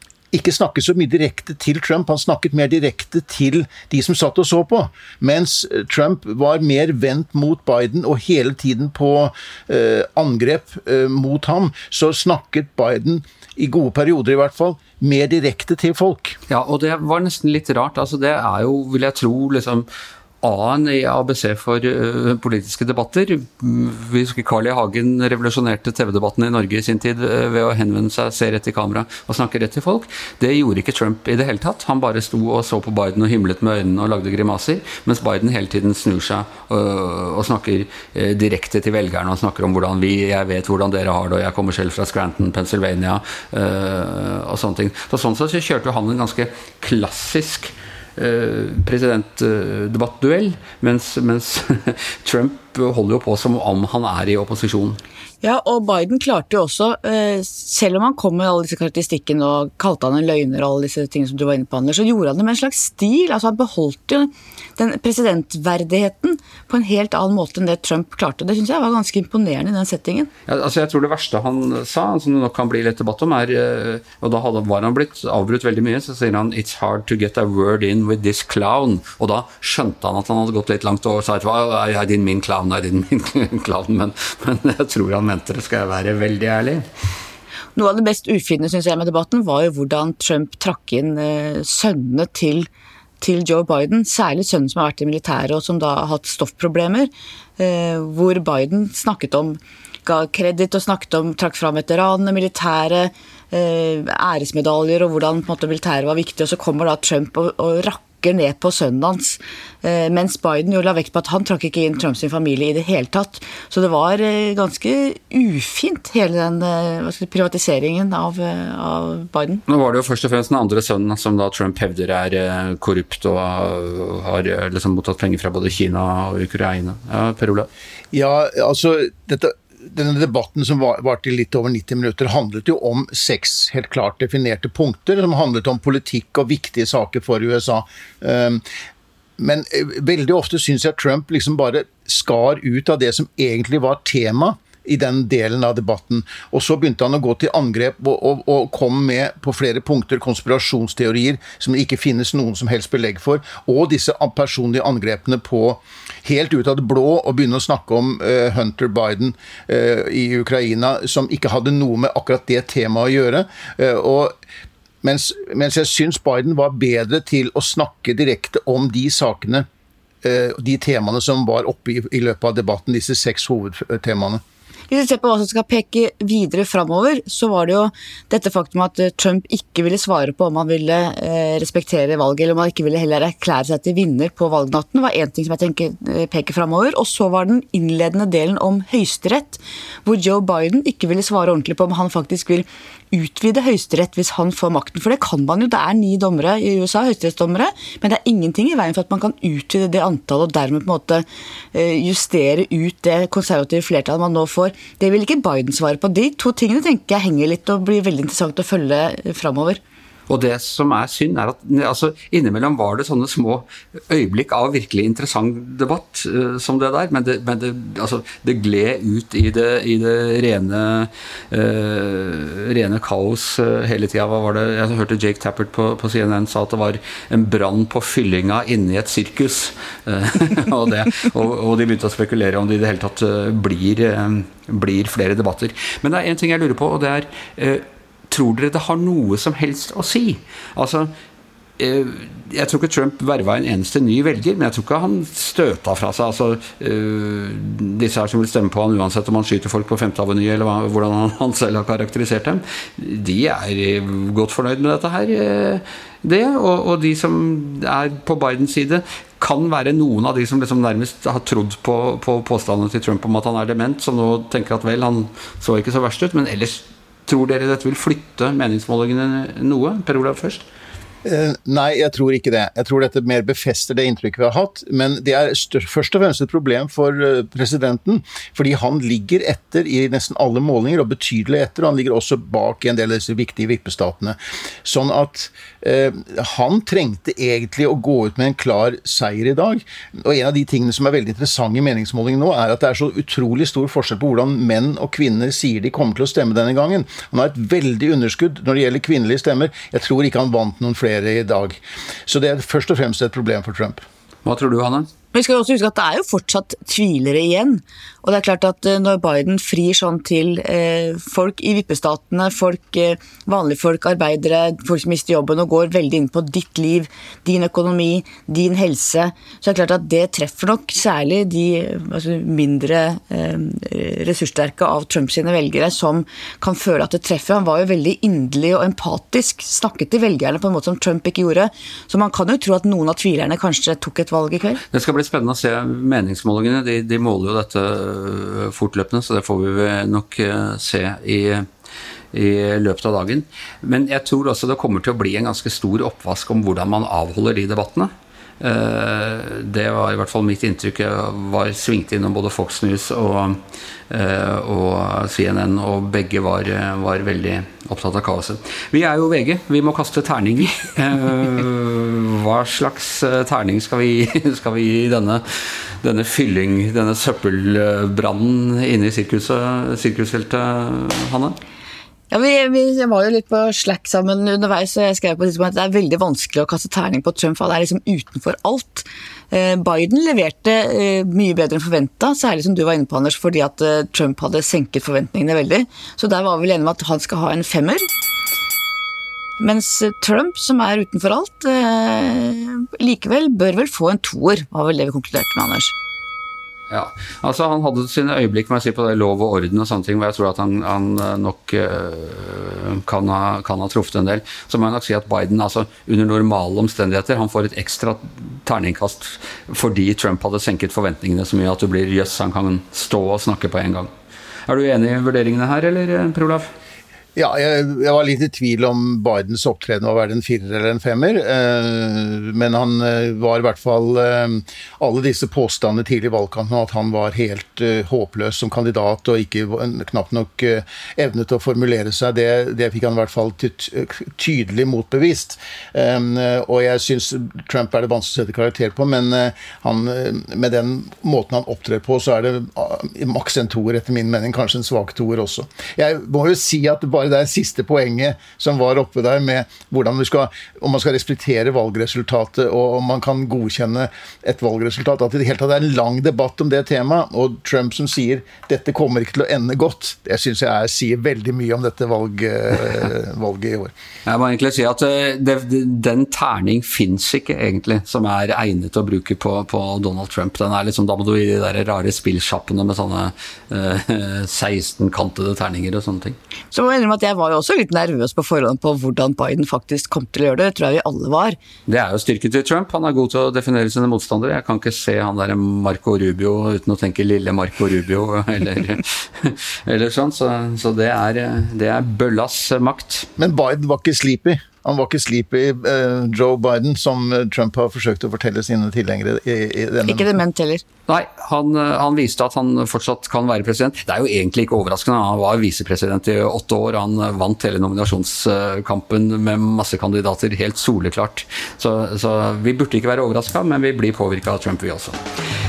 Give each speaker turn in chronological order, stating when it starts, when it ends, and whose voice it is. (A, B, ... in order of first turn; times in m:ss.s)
0:00.3-0:16.4 A
0:16.5-0:19.9 B
0:20.4-0:55.0 B
0:55.4-1:10.3 C
1:10.5-1:26.8 B
1:27.7-1:32.7 C
1:33.2-1:59.6 C
1:59.7-2:07.7 B
2:08.1-2:18.6 A
2:19.4-2:44.4 A
2:45.0-2:49.6 A
2:50.2-2:54.4 A
2:54.9-3:29.8 C
3:30.3-4:01.1 B
4:01.8-4:30.6 B
4:31.2-5:04.0 A
5:04.4-5:05.1 B
5:05.3-5:34.8 C
5:34.9-5:41.6 B
5:42.3-5:48.1 B
5:48.6-6:05.4 B
6:06.0-6:11.6 B
6:12.3-6:28.1 C
6:29.6-6:35.9 C
6:36.9-6:54.1 B
6:54.7-6:56.7 B
6:57.4-7:43.9 A
7:44.2-7:56.4 B
7:56.7-8:01.6 C
8:01.9-8:13.3 B
8:13.4-8:20.3 A
8:20.0-8:20.8 C
8:21.1-8:35.2 B